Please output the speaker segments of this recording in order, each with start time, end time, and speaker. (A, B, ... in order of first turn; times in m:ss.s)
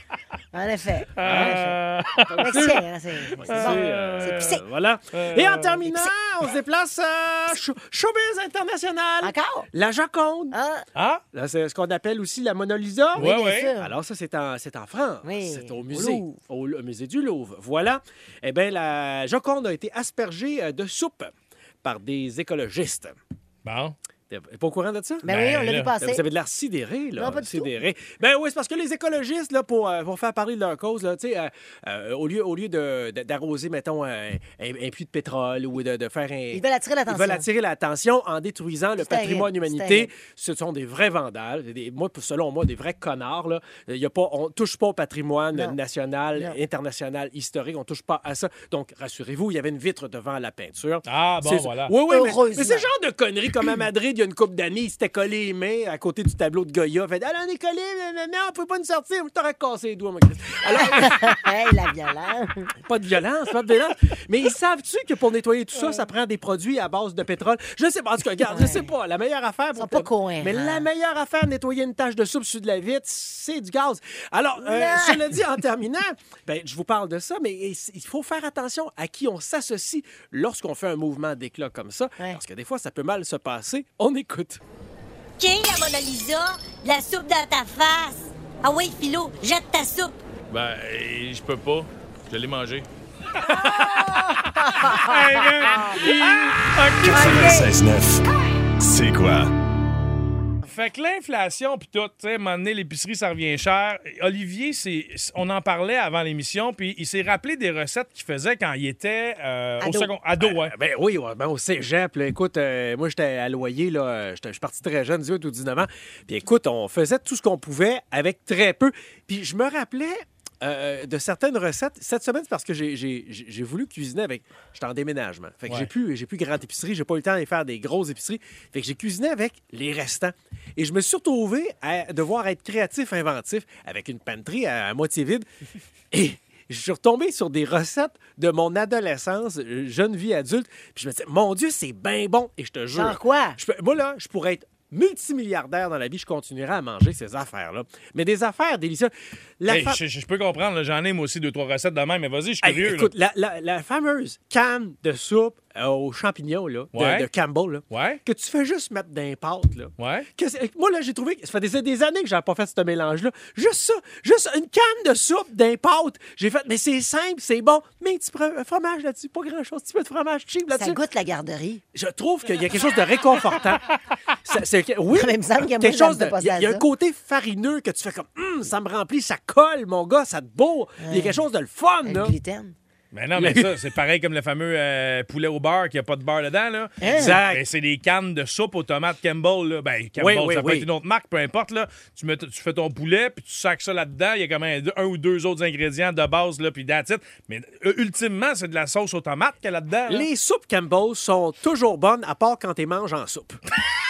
0:00.5-0:04.6 A
0:01.2-0:02.5 B
0:01.3-0:01.5 C
0:02.5-0:02.8 C
0:03.2-0:04.6 B
0:03.4-0:10.6 C
0:05.1-0:05.8 B
0:09.2-0:09.7 A
0:10.5-0:10.8 A
0:11.0-0:11.2 B
0:11.3-0:21.3 C
0:13.1-0:13.9 A
0:13.2-0:13.7 B
0:15.2-0:16.3 A
0:21.8-0:23.1 C
0:23.6-0:24.0 B
0:24.3-0:25.3 C
0:25.2-0:26.2 A
0:25.3-0:26.0 B
0:26.0-1:01.4 C
0:27.2-0:27.7 A
0:36.5-0:37.5 A
0:39.0-0:40.1 A
0:51.0-0:51.9 B
0:52.1-0:52.9 A
1:00.8-1:02.7 A
1:02.8-1:24.6 C
1:05.8-1:06.0 A
1:08.4-1:08.9 A
1:09.7-1:10.9 A
1:14.6-1:15.3 A
1:25.4-1:26.6 D
1:25.5-1:28.1 A
1:27.3-1:29.8 D
1:28.7-1:30.1 A
1:30.5-1:32.9 B
1:33.4-1:37.6 B
1:33.7-1:35.2 A
1:37.0-1:38.2 E
1:37.1-1:37.7 A
1:38.8-1:39.5 E
1:40.6-1:50.7 B
1:49.8-1:50.1 A
1:50.4-2:15.4 C
2:16.1-2:30.0 C
2:22.9-2:23.6 A
2:29.7-2:33.1 B
2:32.6-2:51.0 C
2:36.9-2:37.3 B
2:37.9-2:38.2 B
2:40.0-2:40.3 B
2:50.7-2:51.8 A
2:51.9-2:53.8 C
2:54.4-3:02.3 C
2:55.1-2:56.8 A
3:01.0-3:01.4 A
3:02.0-3:02.7 A
3:03.1-3:20.3 B
3:03.3-3:03.7 C
3:07.0-3:07.4 A
3:07.0-3:07.6 C
3:10.2-3:10.9 C
3:20.1-3:23.6 C